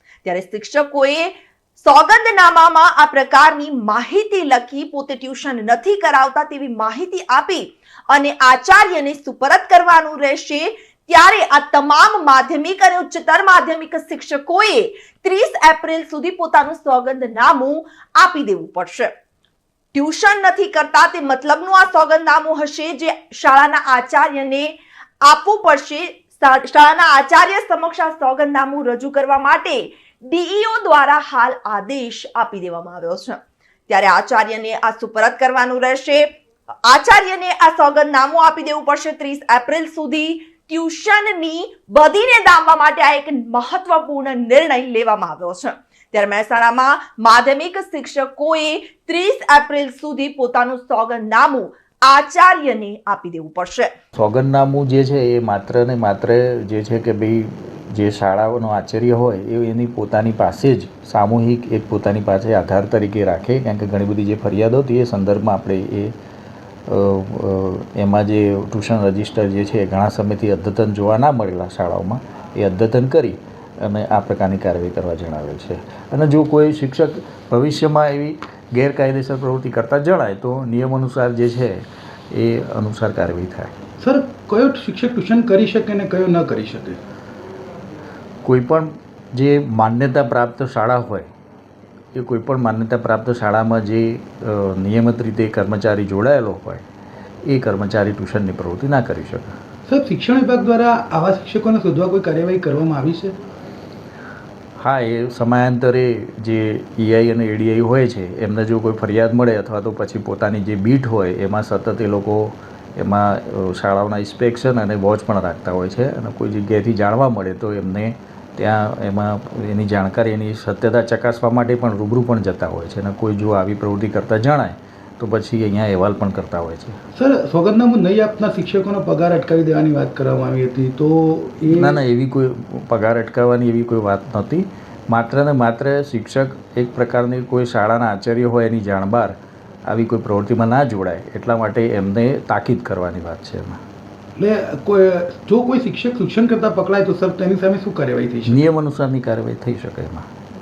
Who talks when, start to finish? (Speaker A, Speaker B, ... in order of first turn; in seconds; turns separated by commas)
Speaker A: 0.2-19.1, Speaker A: 19.9-36.3, Speaker A: 36.9-53.9, Speaker B: 54.1-66.1, Speaker B: 66.9-83.7, Speaker C: 84.0-87.0, Speaker B: 88.5-91.3, Speaker B: 92.2-96.8, Speaker B: 97.5-99.5, Speaker C: 99.9-103.3, Speaker B: 104.8-127.0, Speaker C: 127.2-132.0, Speaker B: 131.7-139.4, Speaker B: 139.9-143.8, Speaker C: 144.4-148.7, Speaker B: 148.5-150.2